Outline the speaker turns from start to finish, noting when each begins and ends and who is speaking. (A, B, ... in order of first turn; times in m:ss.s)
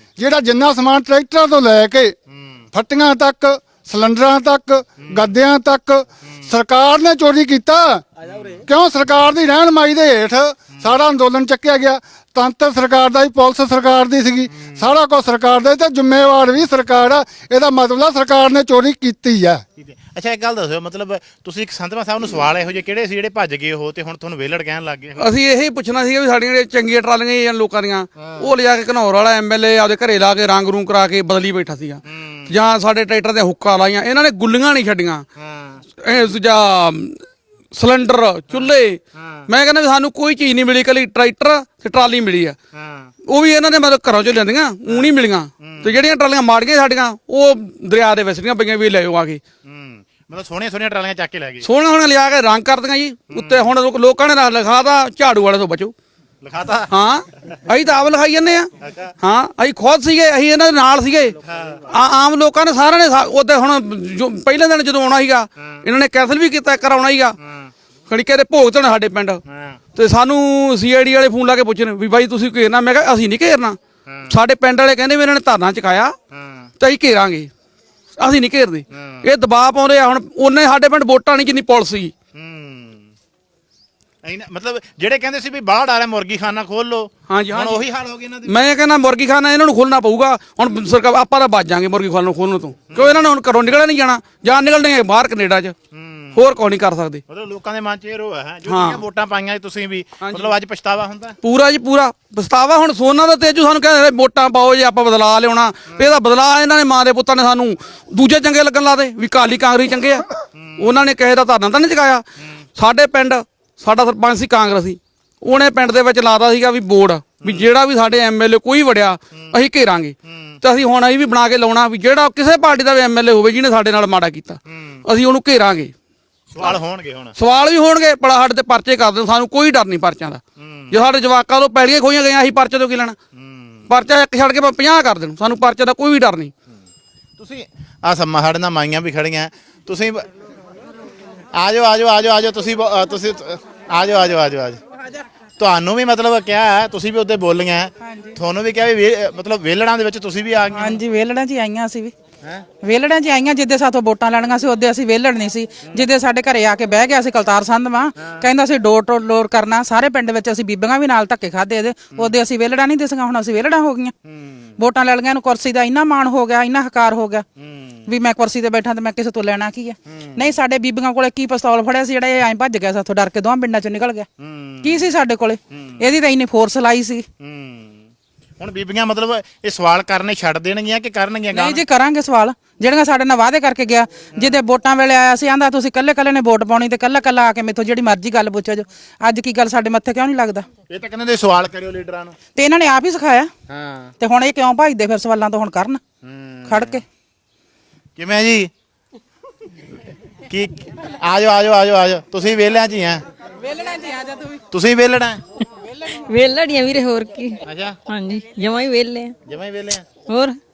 0:00.2-0:02.1 A
0:02.3-0:02.6 B
0:02.7-0:08.0 A
0:05.0-0:05.3 B
0:08.3-0:08.6 B
0:08.6-0:19.6 A
0:14.6-0:14.8 B
0:19.8-0:25.3 B
0:25.2-0:35.2 C
0:28.2-0:28.5 B
0:32.1-0:32.5 B
0:35.4-0:35.8 B
0:36.0-0:37.2 C
0:37.7-0:42.6 C
0:38.5-0:39.5 B
0:42.7-0:43.1 B
0:43.3-0:49.4 C
0:44.9-0:46.0 B
0:49.6-0:51.7 B
0:51.6-0:55.9 C
0:53.3-0:53.7 B
0:56.4-0:56.9 B
0:56.9-0:58.7 C
0:58.8-0:59.1 B
0:59.2-1:01.3 C
1:01.4-1:01.8 B
1:01.9-1:07.4 C
1:07.4-1:07.7 B
1:08.1-1:09.4 C
1:09.5-1:09.8 B
1:09.9-1:13.8 C
1:14.1-1:14.3 B
1:14.3-1:16.1 C
1:16.3-1:16.7 B
1:16.8-1:17.5 C
1:18.2-1:22.1 C
1:18.9-1:19.2 B
1:22.3-1:23.0 B
1:24.2-1:28.6 B
1:27.3-1:27.8 C
1:28.4-1:35.7 C
1:32.9-1:33.3 B
1:35.9-1:36.4 B
1:36.3-1:37.2 C
1:37.3-1:41.4 B
1:38.7-1:39.0 C
1:40.2-1:40.5 C
1:41.4-1:50.2 C
1:50.6-1:51.0 B
1:50.8-1:52.2 C
1:52.8-2:05.9 C
1:57.4-1:57.7 B
2:00.3-2:00.6 B
2:04.7-2:05.0 B
2:06.5-2:07.3 B
2:07.4-2:13.2 C
2:10.6-2:11.0 B
2:13.3-2:13.9 B
2:13.9-2:16.5 C
2:17.4-2:20.2 B
2:21.5-2:24.8 B
2:25.6-2:31.0 B
2:28.0-2:28.3 D
2:30.7-2:32.1 D
2:32.8-2:44.1 D
2:44.3-2:44.6 B
2:44.8-2:47.4 D
2:47.6-2:48.0 B
2:48.1-2:54.3 D
2:50.1-2:50.4 B
2:54.4-2:55.1 B
2:54.8-2:57.2 D
2:55.7-2:56.0 B
2:57.4-2:58.1 B
2:58.6-3:01.8 B
3:01.5-3:10.7 D
3:10.9-3:12.3 B
3:12.5-3:13.5 D
3:13.7-3:14.1 B
3:14.2-3:16.0 D
3:16.2-3:17.0 B
3:16.6-3:17.0 D
3:18.2-3:18.7 B
3:20.5-3:23.2 B
3:23.7-3:24.6 D
3:24.7-3:25.4 B
3:26.1-3:29.3 E
3:27.6-3:28.0 B
3:29.4-3:30.1 B
3:30.3-3:30.6 E